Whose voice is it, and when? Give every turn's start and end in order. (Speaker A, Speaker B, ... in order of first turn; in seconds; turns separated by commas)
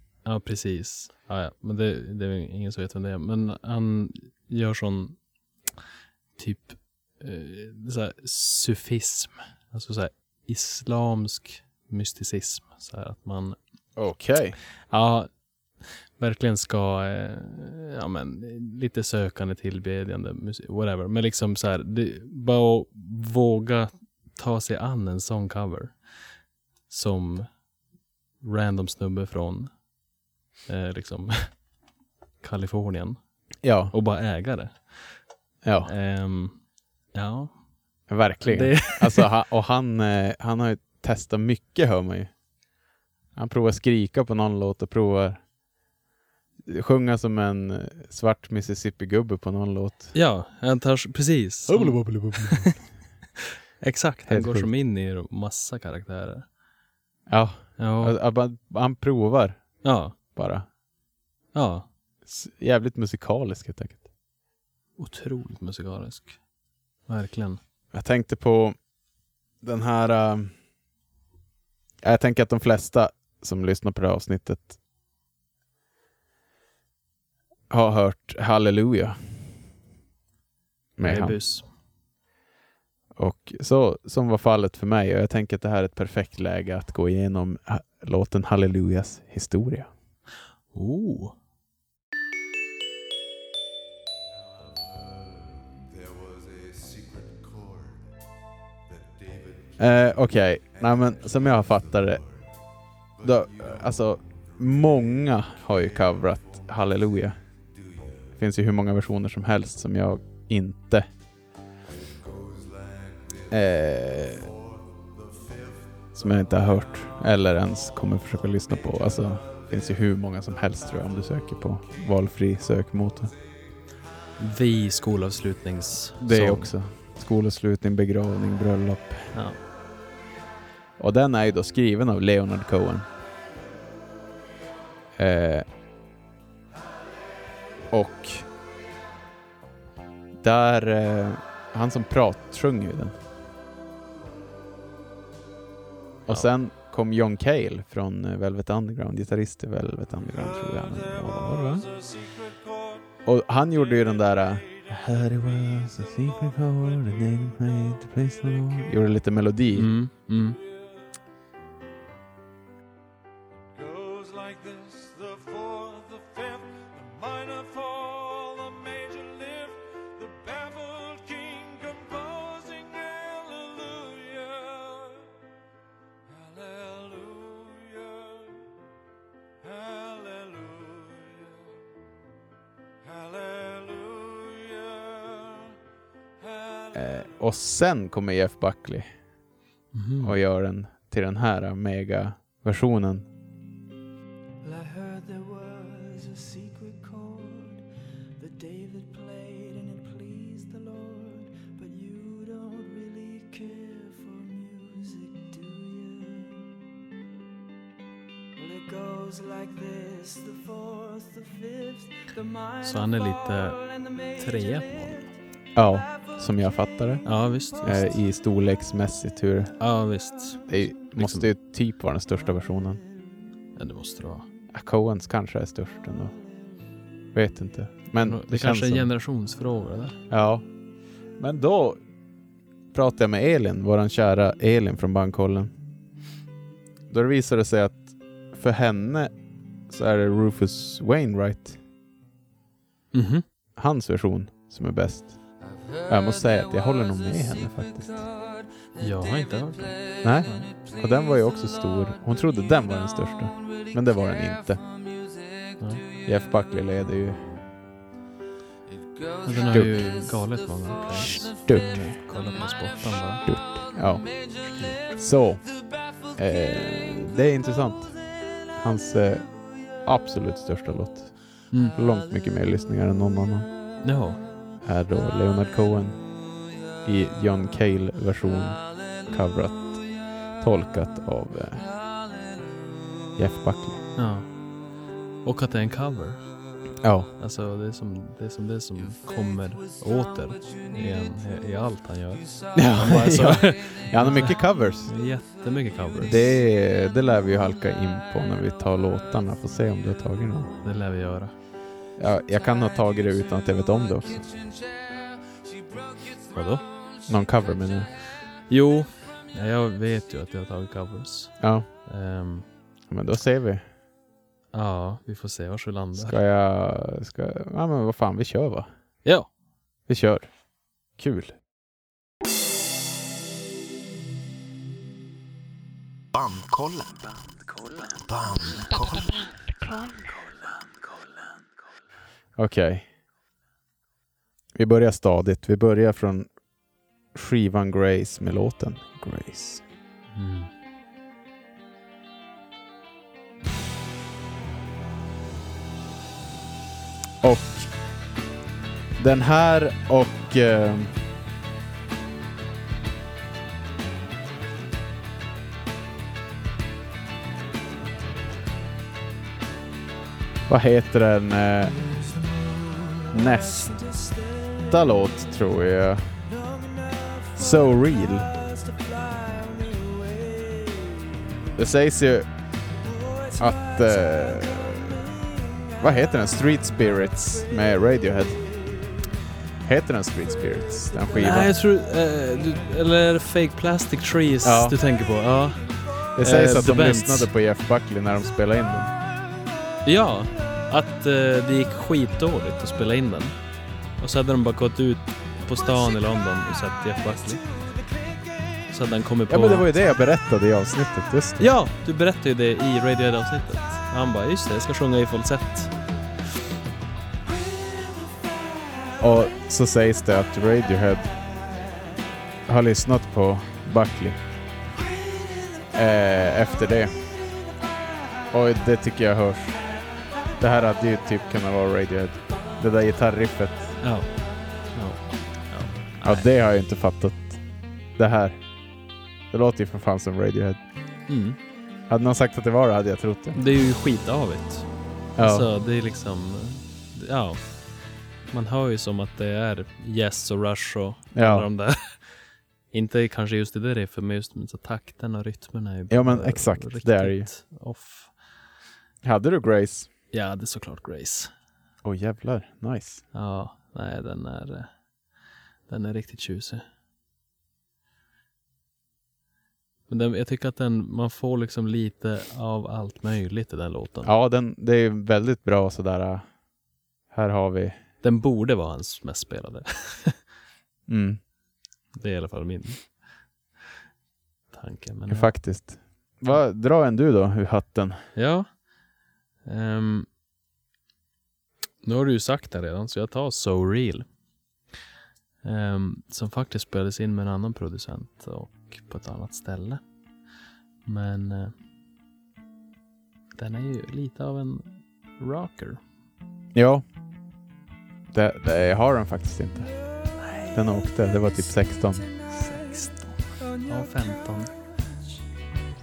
Speaker A: 0.2-5.2, Speaker A: 6.4-13.6, Speaker B: 14.0-14.6, Speaker A: 14.9-15.3, Speaker A: 16.2-26.0, Speaker A: 26.9-27.5, Speaker A: 28.4-29.8, Speaker A: 30.7-31.5, Speaker A: 32.4-33.2, Speaker B: 33.6-33.9, Speaker A: 33.9-35.2, Speaker B: 35.6-35.9, Speaker A: 35.8-36.6, Speaker A: 37.1-37.6, Speaker B: 38.1-42.3, Speaker A: 38.4-39.3, Speaker B: 43.4-45.4, Speaker B: 46.6-50.1, Speaker A: 50.1-52.8, Speaker B: 51.7-52.8, Speaker A: 53.4-56.5, Speaker B: 54.3-54.7, Speaker B: 57.3-60.7, Speaker A: 57.8-58.2, Speaker A: 59.8-60.2, Speaker A: 61.5-61.9, Speaker B: 62.3-64.0, Speaker A: 65.0-66.4, Speaker A: 67.1-67.6, Speaker B: 67.9-68.8, Speaker B: 69.6-70.5, Speaker B: 72.0-74.8, Speaker B: 77.7-79.2, Speaker B: 81.0-81.4, Speaker A: 81.0-81.7, Speaker B: 83.2-89.9, Speaker A: 90.7-91.4, Speaker B: 99.8-102.3, Speaker B: 103.2-107.4, Speaker B: 108.3-111.1, Speaker B: 113.5-114.5, Speaker B: 116.1-123.3, Speaker A: 124.4-126.7, Speaker B: 126.2-129.3, Speaker A: 129.3-129.6, Speaker B: 131.0-133.1, Speaker B: 135.2-135.7, Speaker B: 137.9-138.5, Speaker B: 140.4-143.2, Speaker B: 146.3-152.0, Speaker B: 153.2-159.9, Speaker A: 159.7-160.6, Speaker B: 186.9-189.1, Speaker A: 189.9-190.4, Speaker B: 190.2-193.3, Speaker C: 194.6-197.8, Speaker C: 198.4-206.7, Speaker C: 208.6-215.3, Speaker A: 212.8-213.8, Speaker A: 214.4-215.3, Speaker B: 215.8-217.3, Speaker C: 215.9-216.4, Speaker A: 217.2-218.2, Speaker B: 217.8-219.8, Speaker A: 219.8-221.5, Speaker B: 220.7-223.0, Speaker A: 223.8-224.5, Speaker B: 224.7-226.3, Speaker B: 227.3-229.1, Speaker A: 228.2-230.2, Speaker B: 230.3-230.7, Speaker B: 231.4-232.0, Speaker B: 232.9-235.7, Speaker B: 237.1-239.3, Speaker B: 239.9-241.8, Speaker A: 243.1-243.5, Speaker B: 243.8-245.4, Speaker B: 246.0-248.3, Speaker A: 249.0-250.7, Speaker B: 250.2-254.8, Speaker A: 255.8-256.0, Speaker B: 256.2-257.4, Speaker A: 259.4-263.5, Speaker B: 259.7-260.1, Speaker B: 261.2-262.1, Speaker B: 263.5-264.5, Speaker A: 264.6-265.0, Speaker B: 265.1-268.2, Speaker B: 268.8-273.7, Speaker A: 274.0-274.4, Speaker B: 274.8-276.2, Speaker B: 277.0-280.1, Speaker B: 280.6-281.9, Speaker B: 283.4-284.0, Speaker A: 284.2-284.5, Speaker A: 285.4-286.5, Speaker B: 287.0-287.3, Speaker A: 287.4-296.4, Speaker B: 292.8-295.1, Speaker B: 296.2-300.7, Speaker A: 300.8-301.5, Speaker B: 302.2-304.7, Speaker A: 306.5-306.9, Speaker B: 307.3-308.1, Speaker A: 308.7-312.7, Speaker B: 311.6-311.9, Speaker B: 313.1-313.8, Speaker A: 314.7-316.4, Speaker B: 316.2-318.9, Speaker A: 319.2-319.5, Speaker B: 320.1-320.5, Speaker B: 321.1-321.6, Speaker D: 326.4-331.6, Speaker B: 332.6-333.1, Speaker B: 334.8-336.5, Speaker B: 337.3-339.8, Speaker A: 340.3-340.7, Speaker B: 347.4-347.9, Speaker B: 349.2-351.2, Speaker B: 360.7-362.0, Speaker B: 363.3-363.9, Speaker C: 363.4-365.4, Speaker B: 364.9-366.3, Speaker C: 366.5-371.6, Speaker B: 367.6-368.5, Speaker B: 371.8-372.5, Speaker C: 373.1-376.5, Speaker B: 373.6-375.2, Speaker B: 376.0-378.6, Speaker C: 377.2-377.9, Speaker C: 378.6-379.0, Speaker B: 379.8-381.7, Speaker C: 380.8-381.4, Speaker A: 381.3-387.5, Speaker B: 384.6-385.0, Speaker B: 386.4-389.1, Speaker A: 390.0-393.6, Speaker A: 394.2-397.6, Speaker C: 397.2-398.9, Speaker A: 398.9-399.9, Speaker B: 399.5-401.6, Speaker A: 401.6-405.9, Speaker C: 407.6-409.2, Speaker B: 409.2-411.3, Speaker B: 412.7-414.4, Speaker C: 415.0-416.0, Speaker B: 415.9-417.1, Speaker B: 418.5-419.8, Speaker B: 420.6-424.0, Speaker A: 424.0-426.5, Speaker B: 426.2-427.6, Speaker B: 428.2-428.6, Speaker B: 429.5-430.8, Speaker A: 431.3-431.6, Speaker B: 432.1-433.6, Speaker A: 433.6-437.6, Speaker B: 435.4-435.7, Speaker A: 438.5-442.3, Speaker B: 441.4-441.7, Speaker A: 442.9-448.3, Speaker B: 446.1-447.5, Speaker B: 449.2-450.1, Speaker A: 450.3-451.5, Speaker B: 452.0-453.2, Speaker A: 453.3-454.9, Speaker A: 455.9-456.8, Speaker A: 460.1-464.3, Speaker B: 464.2-466.5, Speaker B: 467.3-468.0, Speaker A: 468.2-470.4, Speaker B: 471.1-471.4, Speaker A: 472.2-473.1, Speaker A: 474.7-475.5, Speaker B: 475.3-478.2, Speaker A: 478.4-478.7, Speaker A: 479.6-480.3, Speaker A: 482.0-484.3, Speaker A: 485.6-490.0, Speaker A: 491.1-491.8, Speaker A: 493.6-496.0, Speaker B: 496.7-497.0, Speaker B: 498.3-499.9, Speaker A: 500.4-500.8, Speaker C: 500.5-505.2, Speaker B: 500.7-502.3, Speaker A: 502.5-504.7